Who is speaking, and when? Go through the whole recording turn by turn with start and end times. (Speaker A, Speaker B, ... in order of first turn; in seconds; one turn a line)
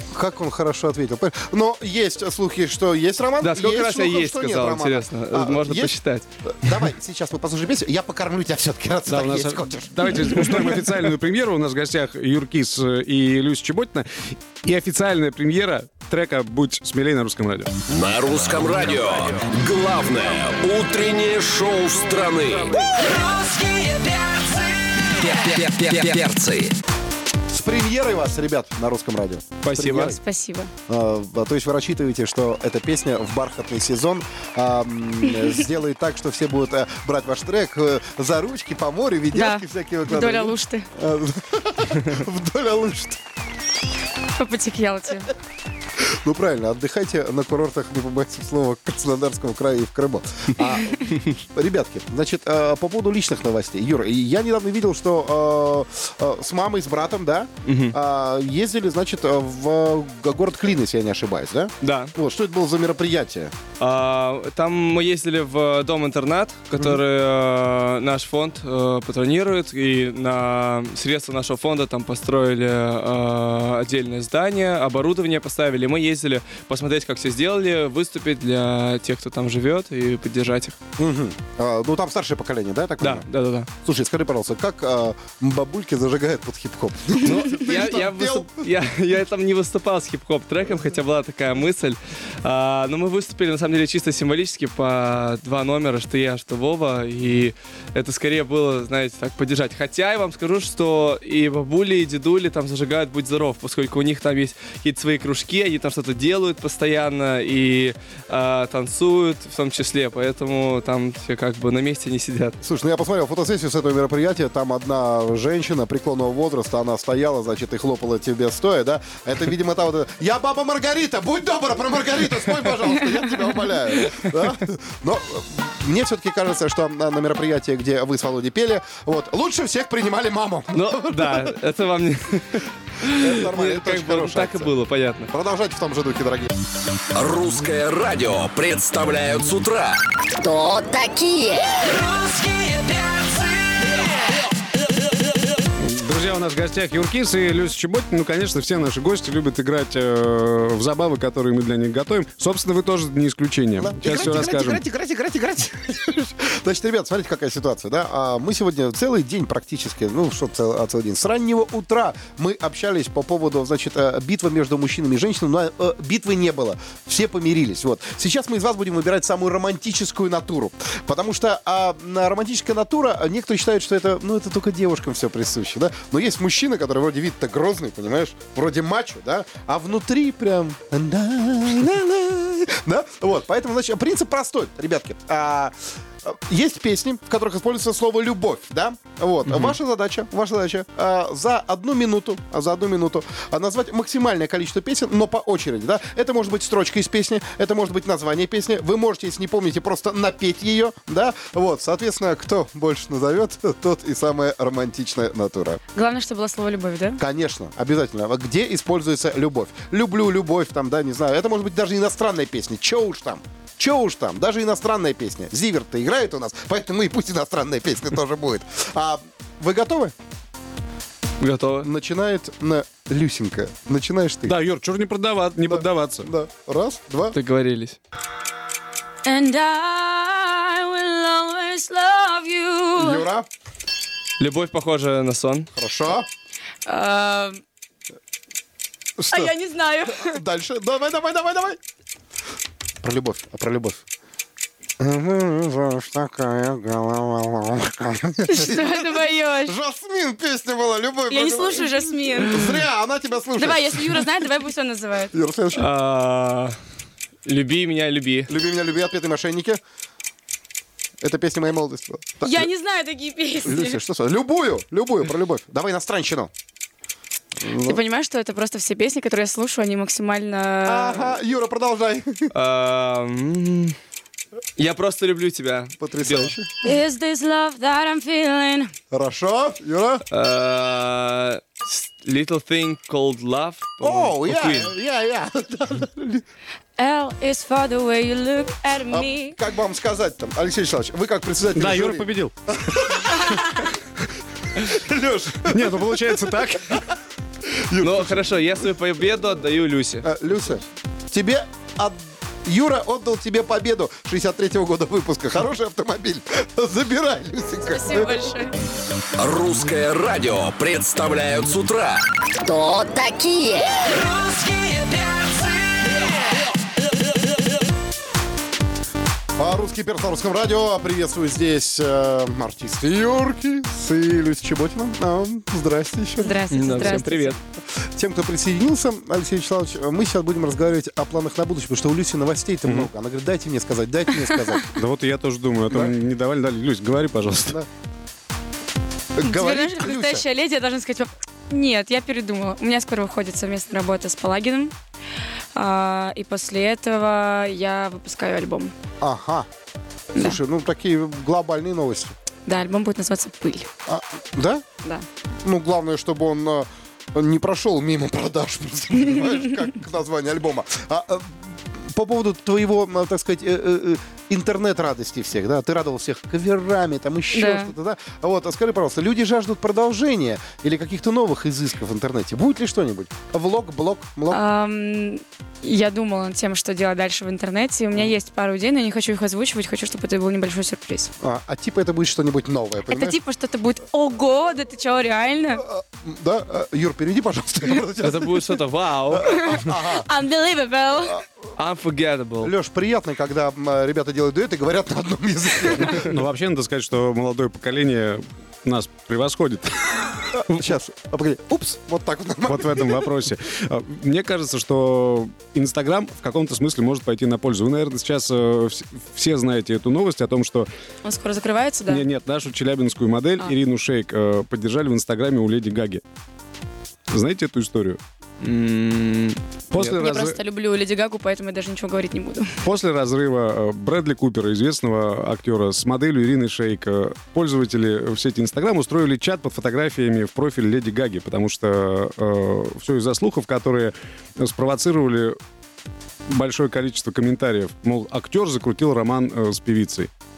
Speaker A: 0.1-6.0
Speaker B: 3.4-6.3
Speaker A: 6.5-10.8
Speaker C: 9.1-17.8
Speaker D: 17.9-23.0
Speaker E: 23.1-24.8
Speaker D: 25.2-26.8
Speaker A: 27.5-30.2
Speaker B: 29.6-30.2
Speaker F: 29.9-30.7
Speaker A: 30.9-43.2
Speaker F: 39.3-40.9
Speaker F: 44.4-45.3
Speaker A: 46.0-63.5
Speaker B: 57.6-58.0
Speaker B: 61.8-62.1
Speaker B: 63.8-80.8
Speaker A: 81.0-83.3
Speaker B: 83.0-83.7
Speaker A: 83.8-88.5
Speaker B: 87.2-112.6
Speaker A: 112.6-131.5
Speaker B: 130.7-135.3
Speaker A: 133.1-134.7
Speaker A: 135.3-136.5
Speaker D: 137.1-140.0
Speaker G: 140.4-141.7
Speaker E: 141.8-143.9
Speaker C: 145.8-154.8
Speaker A: 153.8-205.8
Speaker B: 189.5-189.8
Speaker F: 205.9-207.2
Speaker A: 207.2-220.1
Speaker B: 221.4-221.9
Speaker A: 221.8-224.6
Speaker C: 224.5-226.3
Speaker A: 225.6-227.4
Speaker B: 227.3-228.0
Speaker F: 229.2-233.3
Speaker A: 233.0-233.5
Speaker B: 234.4-235.7
Speaker A: 235.8-236.3
Speaker F: 236.9-237.6
Speaker A: 239.2-239.5
Speaker F: 239.3-240.4
Speaker A: 240.1-241.8
Speaker A: 243.0-244.0
Speaker A: 245.0-254.5
Speaker F: 248.5-249.8
Speaker F: 251.3-252.8
Speaker F: 253.6-255.3
Speaker A: 255.3-255.9
Speaker B: 255.7-256.8
Speaker B: 257.4-258.5
Speaker A: 258.5-259.8
Speaker A: 261.2-262.7
Speaker F: 262.4-264.0
Speaker A: 263.6-266.5
Speaker A: 267.6-268.0
Speaker F: 267.8-271.4
Speaker A: 270.9-272.5
Speaker B: 272.5-274.0
Speaker B: 274.8-276.6
Speaker A: 276.0-276.7
Speaker F: 276.8-278.9
Speaker A: 279.1-280.2
Speaker B: 280.3-284.9
Speaker A: 284.0-286.4
Speaker F: 287.0-289.6
Speaker A: 289.1-294.0
Speaker C: 291.8-292.5
Speaker A: 294.8-297.0
Speaker C: 295.6-297.0
Speaker A: 297.7-298.5
Speaker B: 298.0-300.3
Speaker A: 300.2-308.6
Speaker F: 307.8-308.7
Speaker D: 309.4-312.2
Speaker G: 312.6-314.0
Speaker E: 314.2-315.6
Speaker A: 319.6-327.3
Speaker F: 326.4-327.6
Speaker B: 326.7-327.6
Speaker A: 328.1-335.0
Speaker C: 334.9-337.8
Speaker A: 335.9-336.1
Speaker A: 339.4-340.4
Speaker F: 339.4-344.9
Speaker F: 345.8-348.9
Speaker A: 349.2-349.7
Speaker A: 350.4-352.4
Speaker F: 352.7-353.9
Speaker A: 354.1-354.8
Speaker A: 355.6-374.6
Speaker F: 367.5-367.9
Speaker F: 374.5-381.3
Speaker A: 381.4-383.4
Speaker F: 383.1-385.9
Speaker A: 385.8-388.8
Speaker B: 388.2-389.6
Speaker F: 389.5-391.4
Speaker A: 389.5-390.3
Speaker B: 391.8-392.7
Speaker A: 392.6-396.2
Speaker C: 396.0-400.3
Speaker A: 400.6-403.2
Speaker C: 402.7-410.9
Speaker F: 411.2-412.2
Speaker C: 412.1-416.2
Speaker C: 417.3-418.2
Speaker B: 418.6-420.1
Speaker C: 419.9-420.6
Speaker F: 420.0-422.7
Speaker C: 422.8-435.6
Speaker C: 436.5-440.3